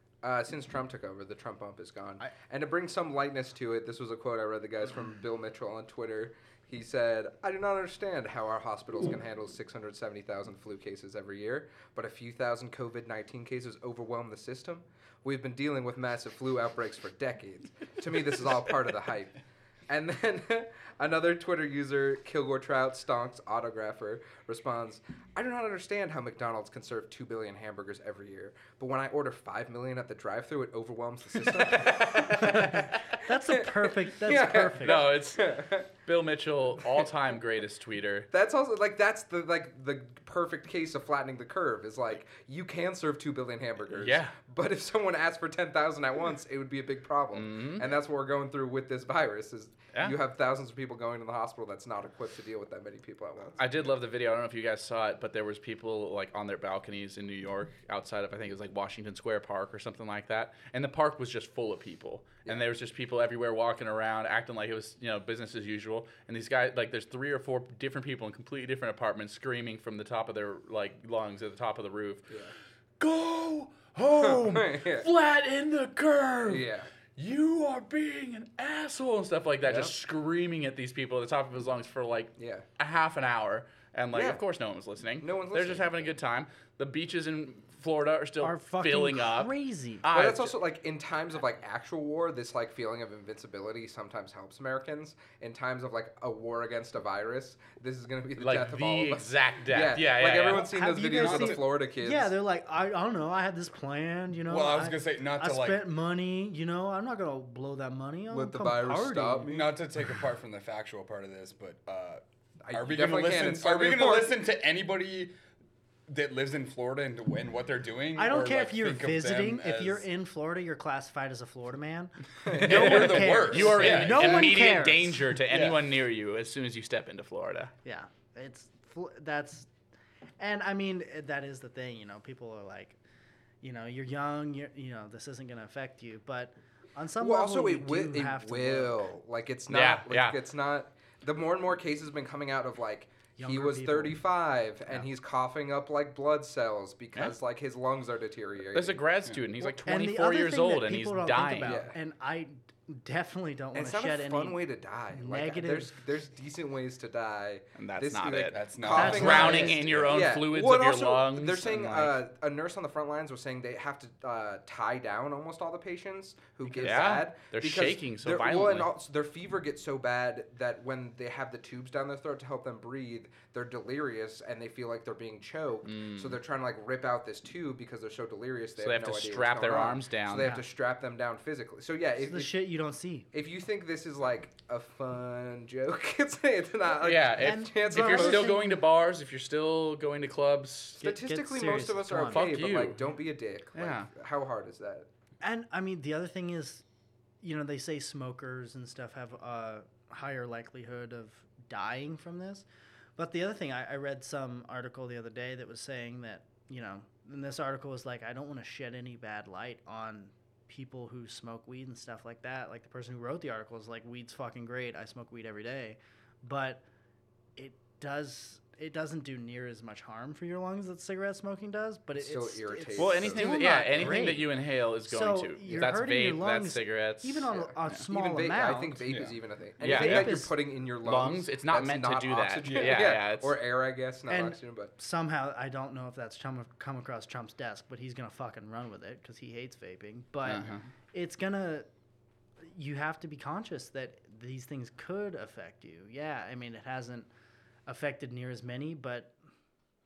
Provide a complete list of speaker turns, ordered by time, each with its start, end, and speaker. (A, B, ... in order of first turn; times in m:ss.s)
0:00.2-0:33.1 A
0:31.4-0:32.9 B
0:32.2-0:35.0 C
0:33.6-0:35.9 A
0:34.8-0:38.3 B
0:38.3-0:53.6 A
0:43.9-0:44.3 B
0:47.3-0:47.9 B
0:53.6-1:12.2 B
1:13.0-1:30.5 B
1:14.2-1:15.1 A
1:16.4-1:16.9 A
1:19.6-1:19.9 A
1:22.4-1:22.6 A
1:24.1-1:24.4 A
1:25.2-1:26.1 A
1:28.4-1:30.0 C
1:30.1-1:42.3 A
1:38.4-1:40.7 B
1:40.5-1:49.5 C
1:41.2-1:41.6 D
1:44.5-1:45.9 D
1:48.3-1:49.8 A
1:49.5-1:55.3 D
1:52.6-1:54.4 A
1:56.1-2:00.1 D
1:58.2-2:05.3 C
2:02.5-2:04.6 D
2:02.7-2:07.7 B
2:05.5-2:05.9 D
2:07.8-2:09.7 C
2:10.4-2:13.0 C
2:13.6-2:19.0 C
2:17.2-2:29.0 A
2:19.7-2:20.4 B
2:23.4-2:24.2 C
2:28.7-2:31.8 B
2:29.2-2:29.5 D
2:29.6-2:36.0 C
2:31.6-2:31.9 A
2:33.7-3:02.5 A
2:37.8-2:42.2 B
2:38.5-2:40.4 D
2:38.9-2:39.8 C
2:46.7-2:48.9 B
2:55.8-2:56.4 B
2:58.8-3:00.5 B
3:00.4-3:00.6 C
3:02.2-3:03.3 C
3:03.3-3:08.6 A
3:07.0-3:11.0 B
3:07.4-3:08.7 C
3:11.0-3:12.4 C
3:11.0-3:15.1 A
3:12.2-3:13.0 B
3:13.8-3:14.1 B
3:15.4-3:16.8 C
3:17.4-3:22.6 C
3:23.2-3:36.8 C
3:37.6-3:44.5 C
3:42.2-3:43.5 A
3:43.0-3:48.0 B
3:45.1-3:49.0 C
3:47.5-3:54.9 A
3:49.0-3:49.4 D
3:49.8-3:50.5 C
3:49.8-3:50.5 B
3:51.0-3:53.6 B
3:52.6-3:53.1 D
3:54.3-4:01.9 C
4:00.4-4:00.9 B
4:02.6-4:07.3 C
4:07.8-4:09.3 C